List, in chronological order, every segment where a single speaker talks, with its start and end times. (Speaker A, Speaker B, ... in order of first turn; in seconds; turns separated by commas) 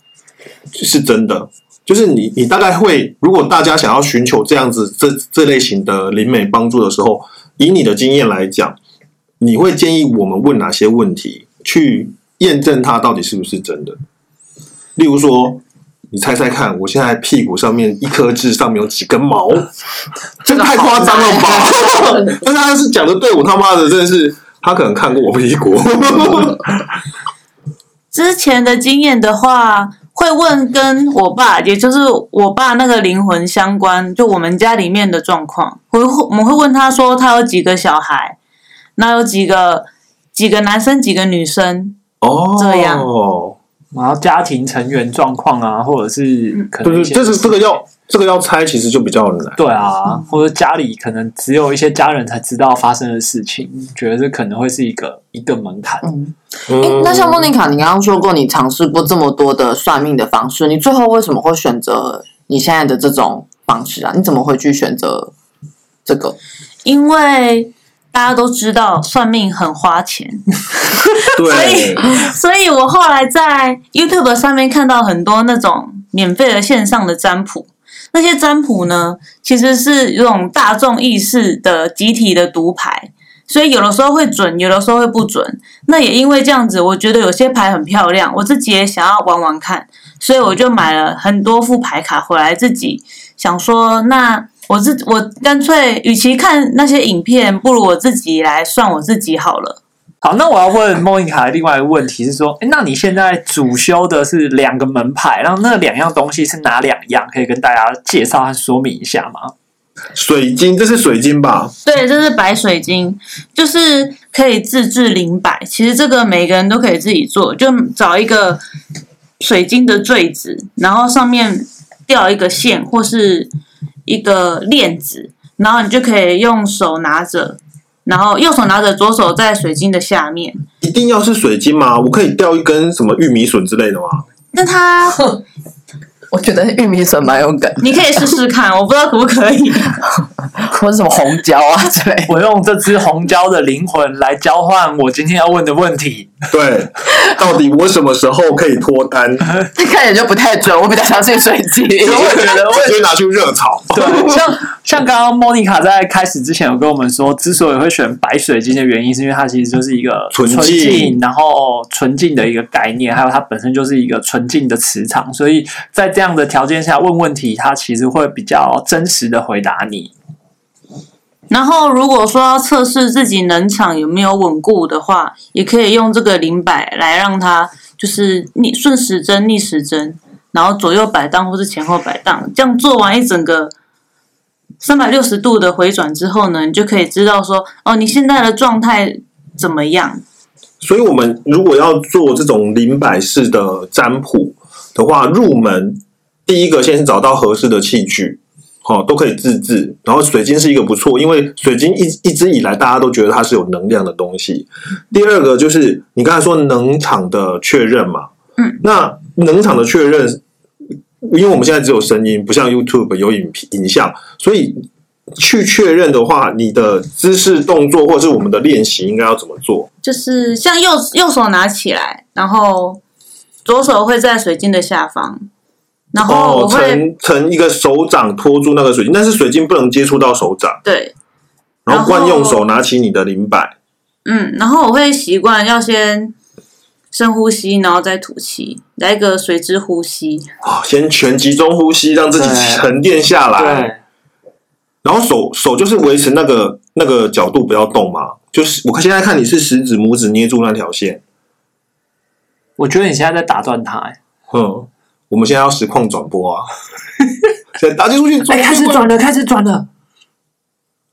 Speaker A: 0.7-8.8, Speaker A: 9.4-14.0, Speaker A: 14.9-19.7, Speaker A: 20.4-26.8, Speaker B: 20.4-22.4, Speaker C: 28.1-38.4, Speaker C: 39.0-42.0, Speaker A: 42.2-43.6, Speaker C: 42.5-43.1, Speaker D: 43.9-47.7, Speaker A: 46.8-49.9, Speaker D: 49.6-56.1, Speaker B: 56.0-65.3, Speaker A: 56.7-57.5, Speaker B: 66.0-66.3, Speaker C: 66.8-99.8, Speaker A: 71.3-72.1, Speaker D: 100.2-109.5, Speaker A: 110.1-111.7, Speaker C: 111.8-118.6, Speaker C: 119.4-123.5, Speaker C: 124.0-130.6, Speaker A: 130.8-134.2, Speaker C: 134.5-135.4, Speaker B: 136.3-137.9, Speaker C: 137.8-140.0, Speaker B: 140.6-142.3, Speaker D: 142.3-146.3, Speaker A: 146.5-149.4, Speaker B: 149.7-152.4, Speaker A: 152.0-154.4, Speaker D: 152.1-153.0, Speaker D: 153.9-170.1, Speaker A: 160.3-161.2, Speaker C: 171.5-183.7, Speaker C: 184.8-190.2, Speaker A: 190.8-208.3, Speaker A: 208.8-210.4, Speaker A: 211.2-214.8, Speaker A: 215.3-219.9, Speaker C: 220.0-223.0, Speaker C: 223.6-225.4, Speaker C: 226.1-227.0, Speaker A: 226.2-230.8, Speaker C: 230.8-231.1, Speaker A: 231.8-233.7, Speaker C: 231.9-232.6, Speaker C: 234.2-236.3, Speaker C: 237.1-240.5, Speaker A: 240.6-243.9, Speaker D: 242.3-242.8, Speaker D: 243.6-244.0, Speaker A: 245.0-251.2, Speaker D: 252.8-254.2, Speaker A: 254.5-256.7, Speaker A: 257.8-259.1, Speaker D: 258.5-259.9